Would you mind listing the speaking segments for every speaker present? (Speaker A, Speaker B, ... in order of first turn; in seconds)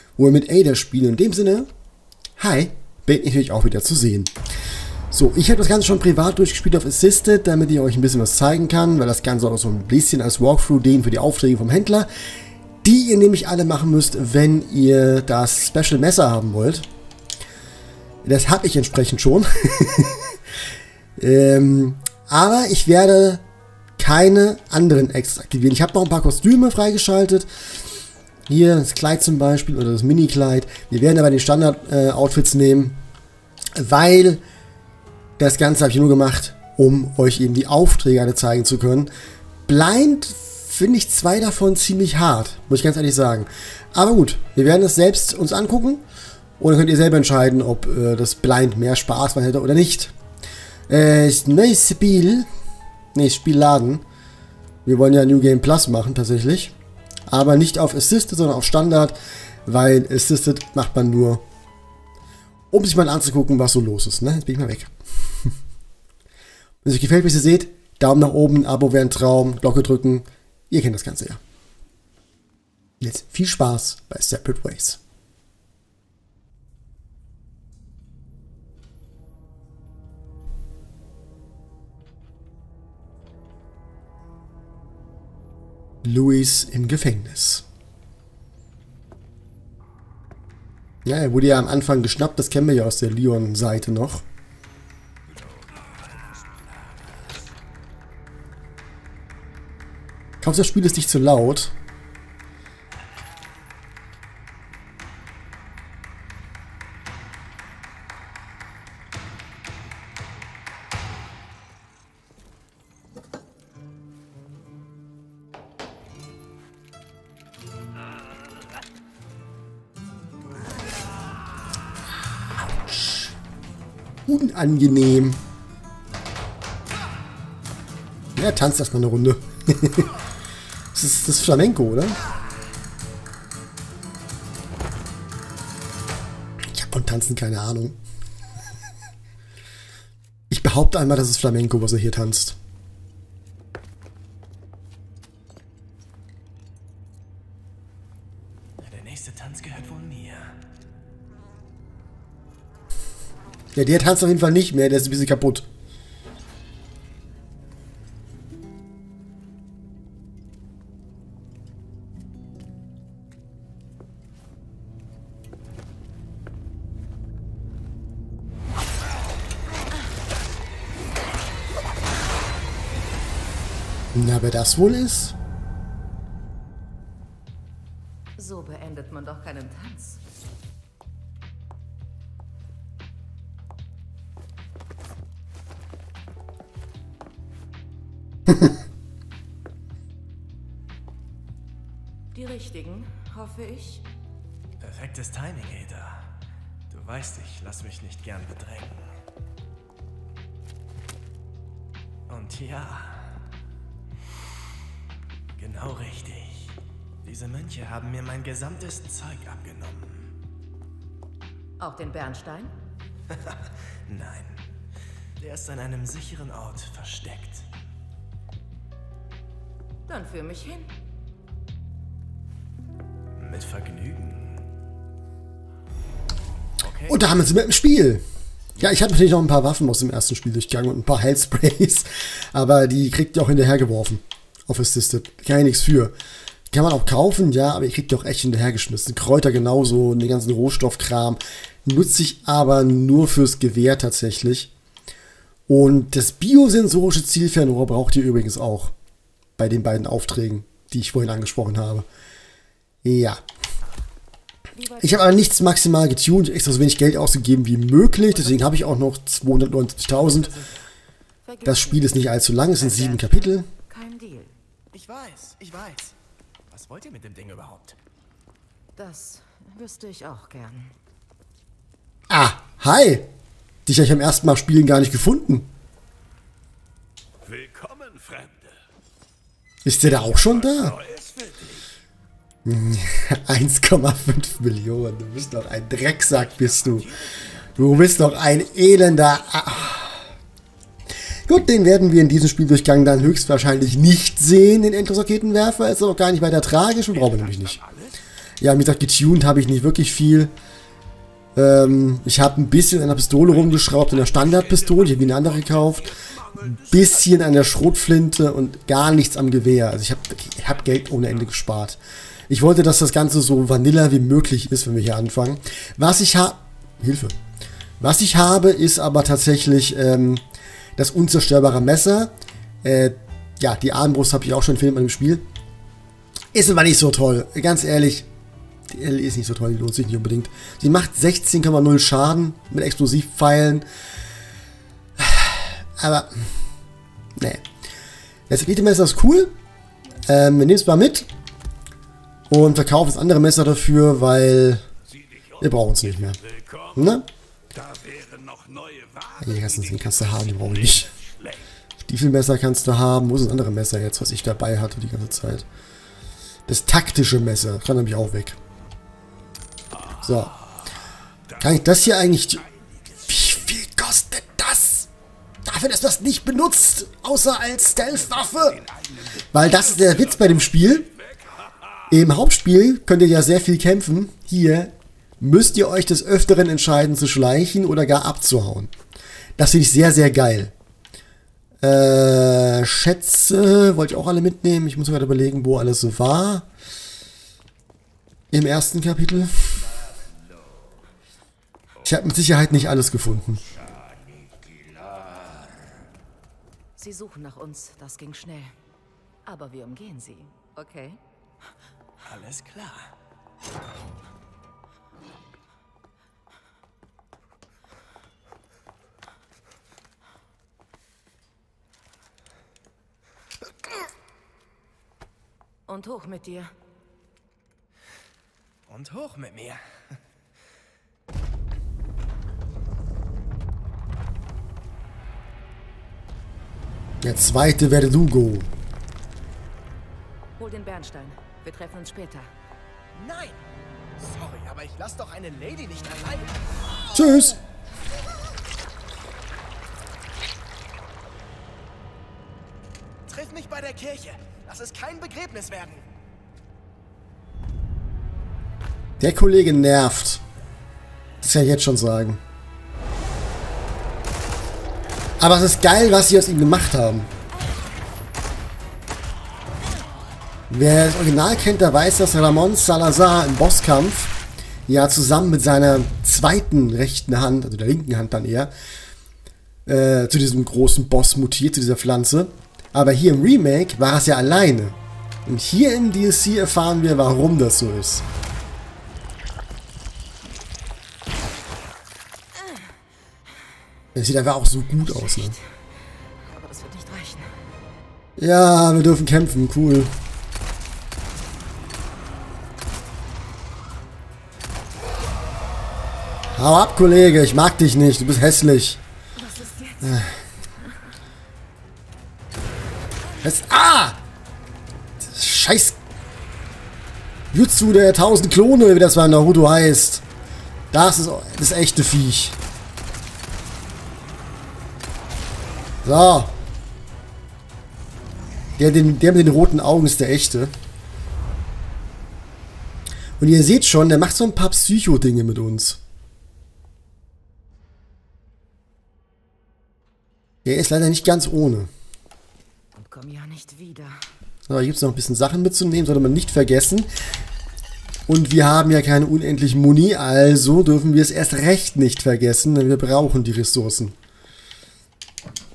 Speaker A: 0.2-1.7, 2.4-4.3, 5.1-12.1, 12.8-16.9, 18.2-20.4, 21.2-23.4, 24.0-27.5, 28.5-33.0, 33.7-34.4, 35.4-39.1, 39.6-46.0, 46.6-50.1, 50.9-52.5, 53.1-54.0, 54.8-56.7, 57.3-61.4, 62.7-64.9, 66.8-71.4, 73.0-75.0, 86.0-87.6, 91.0-94.2, 100.4-101.7, 122.6-123.3, 124.2-125.4, 128.3-130.1, 130.9-132.2, 136.7-138.0, 140.5-142.6, 153.7-155.6, 174.1-175.3, 227.1-228.2, 228.8-236.1, 236.7-244.7, 245.7-248.9, 249.6-252.1, 253.0-253.4, 255.0-260.6, 261.6-263.7, 272.3-273.3, 273.9-275.7, 279.8-281.1, 282.6-290.3, 291.4-297.8, 298.6-300.5, 301.6-317.4, 318.0-320.4, 321.0-322.3, 322.8-325.4, 326.5-328.3, 328.9-333.8, 335.2-336.5, 337.4-337.6, 338.5-339.5, 340.3-341.3, 342.5-344.8, 345.6-347.3, 349.3-351.1, 352.0-355.6, 356.7-358.6, 360.1-360.6, 361.5-365.1, 365.6-371.1, 372.1-378.9, 379.6-380.7, 381.8-386.7, 388.5-389.8, 392.0-393.6, 427.2-428.7, 437.1-437.6, 449.2-450.4, 451.4-452.4, 455.4-457.3, 460.7-468.7, 469.9-478.2, 484.1-485.6, 488.4-490.1, 496.5-499.0, 500.0-500.3, 503.4-504.2, 505.2-506.0, 507.5-510.2, 510.9-512.6, 516.0-516.5, 518.8-520.7, 523.4-526.0, 530.6-531.9, 534.7-537.1, 538.3-544.1
Speaker B: 148.8-150.6, 194.8-196.3, 196.9-199.1, 202.3-203.3, 205.6-210.3, 213.3-214.6, 215.4-217.7, 223.4-224.6, 226.8-227.2, 260.2-260.7, 264.9-266.1, 266.7-267.9, 402.2-403.1, 418.9-419.8, 433.1-433.6, 434.2-437.5, 443.2-446.1
Speaker C: 178.4-180.2, 192.3-194.1, 211.8-212.7, 220.1-220.9, 254.7-255.4, 261.4-264.5, 268.9-270.9, 397.0-398.7, 399.4-401.2, 415.9-416.7, 430.6-432.5, 485.2-485.6, 486.5-487.5, 499.4-500.3, 533.0-534.2
Speaker D: 277.4-278.8, 281.2-281.6, 347.8-349.2